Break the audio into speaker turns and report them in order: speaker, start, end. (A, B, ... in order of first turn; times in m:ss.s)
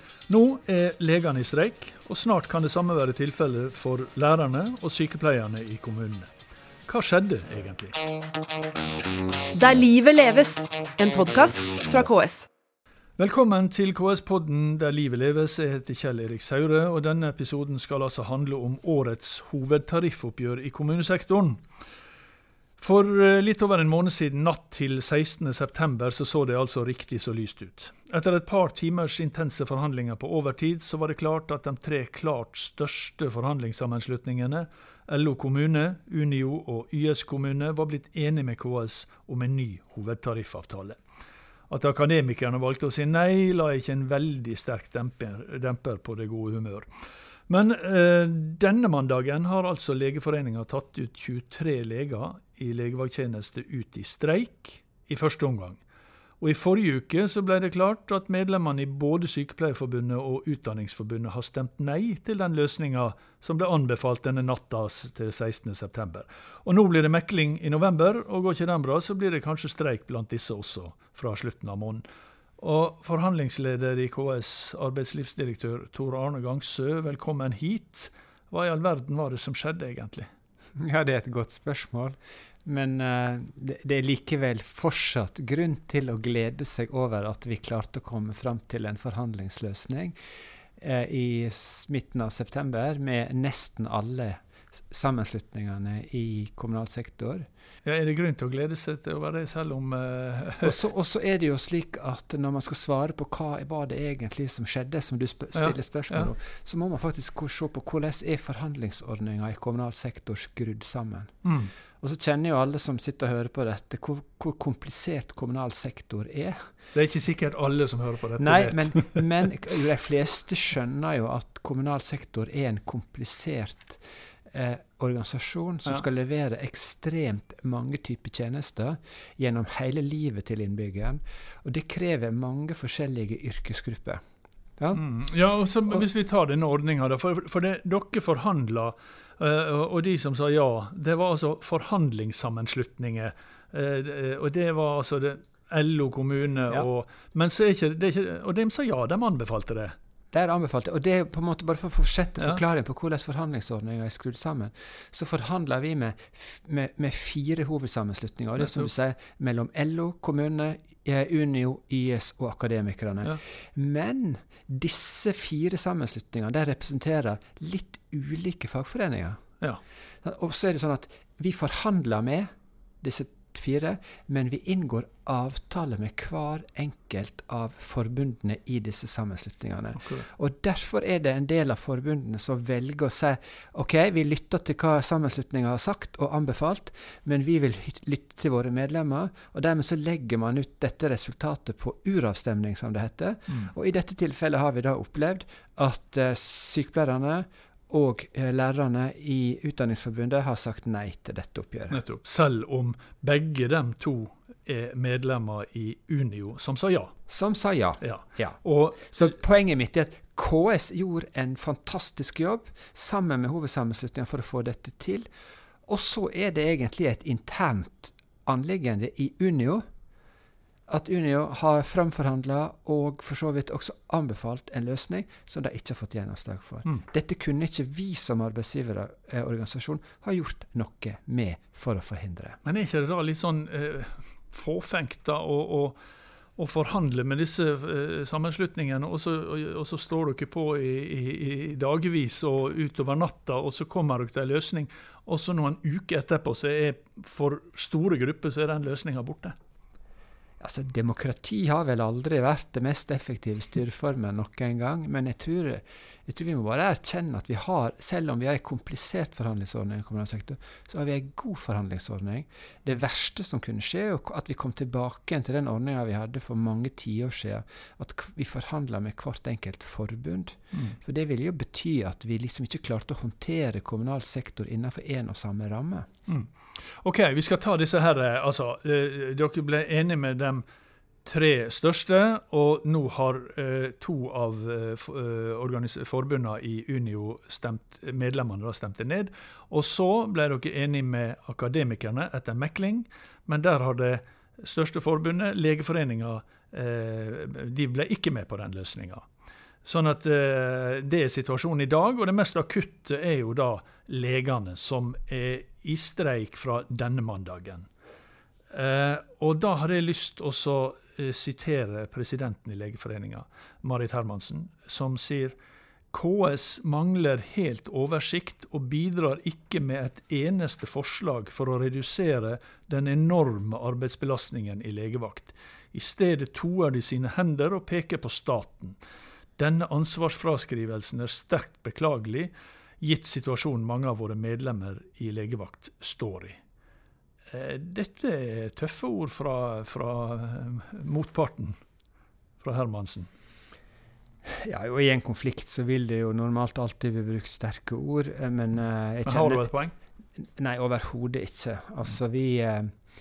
0:00.3-0:06.3 A
0:06.9-0:08.0 A
0:09.5-0:12.5 B
0:13.2-0:21.6 A
0:22.8-0:41.0 A
0:41.7-0:46.9 A
0:47.5-0:55.8 A
0:56.4-1:12.0 A
1:12.6-1:20.3 A
1:20.8-1:30.2 C
1:30.8-1:37.5 C
1:37.8-1:40.7 A
1:40.6-1:51.4 C
1:45.6-1:46.3 A
1:51.4-1:51.7 A
1:52.0-1:56.7 C
1:56.9-1:59.2 A
1:58.4-2:14.2 C
2:14.9-2:30.0 A
2:30.3-2:49.4 C
2:38.6-2:38.9 A
2:50.2-2:52.5 C
2:53.0-3:22.0 C
3:00.0-3:00.3 A
3:21.9-3:27.2 A
3:27.3-3:35.3 C
3:28.0-3:29.3 A
3:35.9-3:39.8 C
3:40.9-3:52.6 C
3:52.6-3:56.0 A
3:56.6-4:09.6 A
4:10.6-4:36.1 C
4:36.3-4:40.6 A
4:41.2-4:59.3 A
4:59.8-5:07.9 A
5:08.7-5:15.6 A
5:16.1-5:29.0 A
5:29.6-5:36.6 A
5:37.5-5:41.8 A
5:42.6-5:43.3 A
5:44.5-5:49.7 C
5:49.2-5:49.9 A
5:50.4-5:53.0 C